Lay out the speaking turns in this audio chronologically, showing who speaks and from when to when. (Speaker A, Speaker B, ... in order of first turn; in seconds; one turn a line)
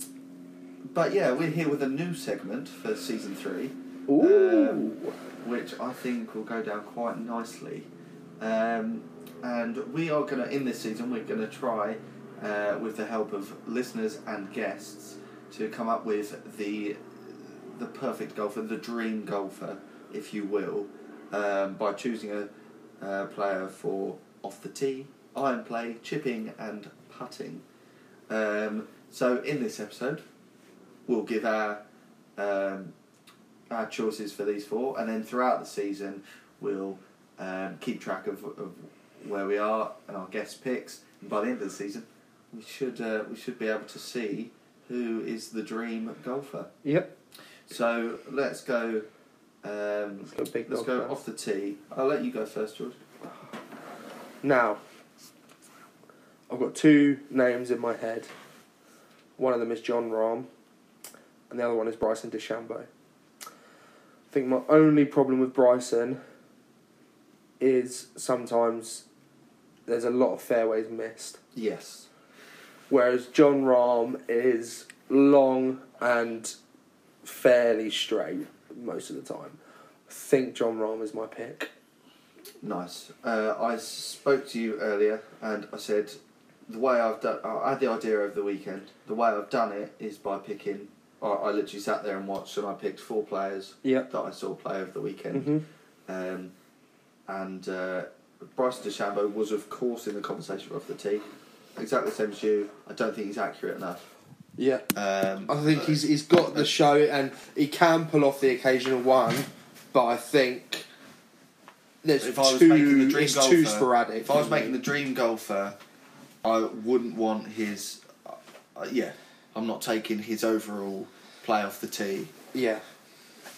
Speaker A: 0.9-7.9
Speaker B: 4.1-5.0
Speaker A: 8.4-17.0
Speaker A: 17.7-22.5
Speaker A: 23.0-27.6
Speaker A: 28.3-30.2
Speaker A: 31.1-31.8
Speaker A: 32.4-32.9
Speaker A: 33.7-46.7
Speaker B: 46.8-47.1
Speaker A: 47.7-49.1
Speaker A: 49.6-53.0
Speaker B: 50.3-51.1
Speaker B: 54.4-54.8
Speaker B: 56.5-58.3
Speaker B: 59.4-60.5
Speaker B: 61.5-62.9
Speaker B: 64.3-66.2
Speaker B: 67.6-69.0
Speaker B: 69.9-71.4
Speaker A: 71.5-72.0
Speaker B: 72.9-76.5
Speaker B: 77.2-79.6
Speaker B: 80.1-81.7
Speaker A: 82.6-95.5
Speaker B: 95.3-95.6
Speaker A: 96.1-96.5
Speaker A: 97.3-101.2
Speaker A: 101.8-104.0
Speaker B: 104.6-104.8
Speaker A: 104.9-106.7
Speaker B: 105.5-110.8
Speaker B: 112.0-114.7
Speaker A: 112.2-115.8
Speaker A: 116.4-122.3
Speaker B: 122.5-122.8